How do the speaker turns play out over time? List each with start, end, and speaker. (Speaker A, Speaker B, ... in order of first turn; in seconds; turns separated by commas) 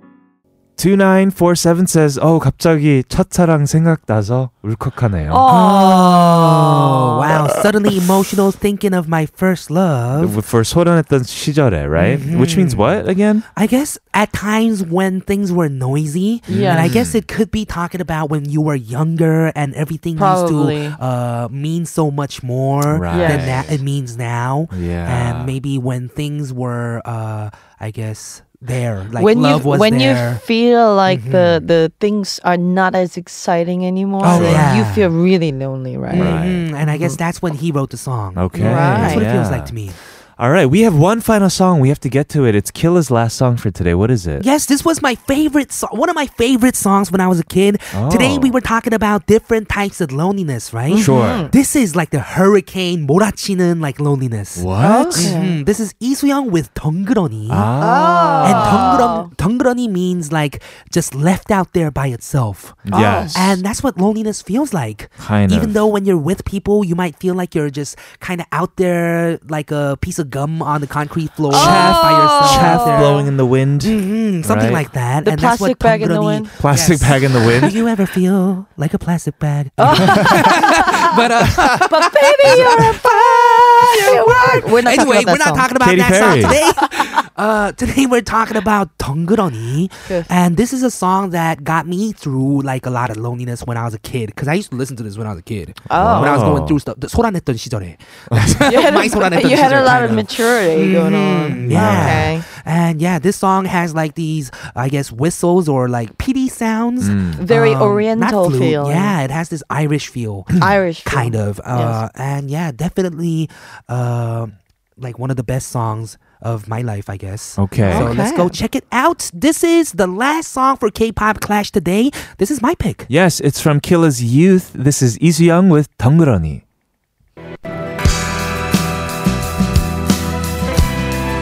Speaker A: 0.8-5.5, Speaker B: 5.3-7.3, Speaker C: 5.5-10.4, Speaker A: 10.2-13.4, Speaker C: 11.9-13.0, Speaker C: 13.5-30.4, Speaker B: 16.5-17.0, Speaker A: 16.5-17.2, Speaker B: 20.1-21.0, Speaker A: 22.9-23.8, Speaker B: 23.1-23.5, Speaker A: 24.7-25.5, Speaker B: 29.1-37.2, Speaker C: 31.1-31.6, Speaker C: 34.2-35.1, Speaker A: 34.3-34.7, Speaker C: 36.1-40.0, Speaker A: 36.2-36.6, Speaker A: 38.3-39.8, Speaker B: 38.5-39.3, Speaker A: 40.4-44.5, Speaker C: 44.4-57.7, Speaker A: 47.9-48.5, Speaker B: 50.9-51.5, Speaker A: 50.9-51.5, Speaker A: 54.5-55.3, Speaker B: 54.8-55.6, Speaker A: 57.5-59.0, Speaker B: 57.8-59.3, Speaker C: 58.4-73.3, Speaker A: 62.9-63.6, Speaker B: 62.9-63.4, Speaker A: 65.2-65.9, Speaker B: 71.5-73.3, Speaker A: 71.5-74.8, Speaker C: 73.8-123.1, Speaker B: 75.2-76.5, Speaker A: 76.6-77.8, Speaker B: 79.8-85.7, Speaker A: 82.5-82.8, Speaker A: 85.8-86.6, Speaker B: 86.2-86.8, Speaker B: 90.0-90.3, Speaker B: 95.9-96.4, Speaker A: 96.0-96.8, Speaker A: 98.3-98.7, Speaker B: 98.7-102.5, Speaker A: 101.5-102.3, Speaker A: 107.0-107.4, Speaker B: 107.4-109.2, Speaker B: 110.6-112.0, Speaker A: 117.6-118.1, Speaker B: 117.8-118.5, Speaker A: 123.1-126.6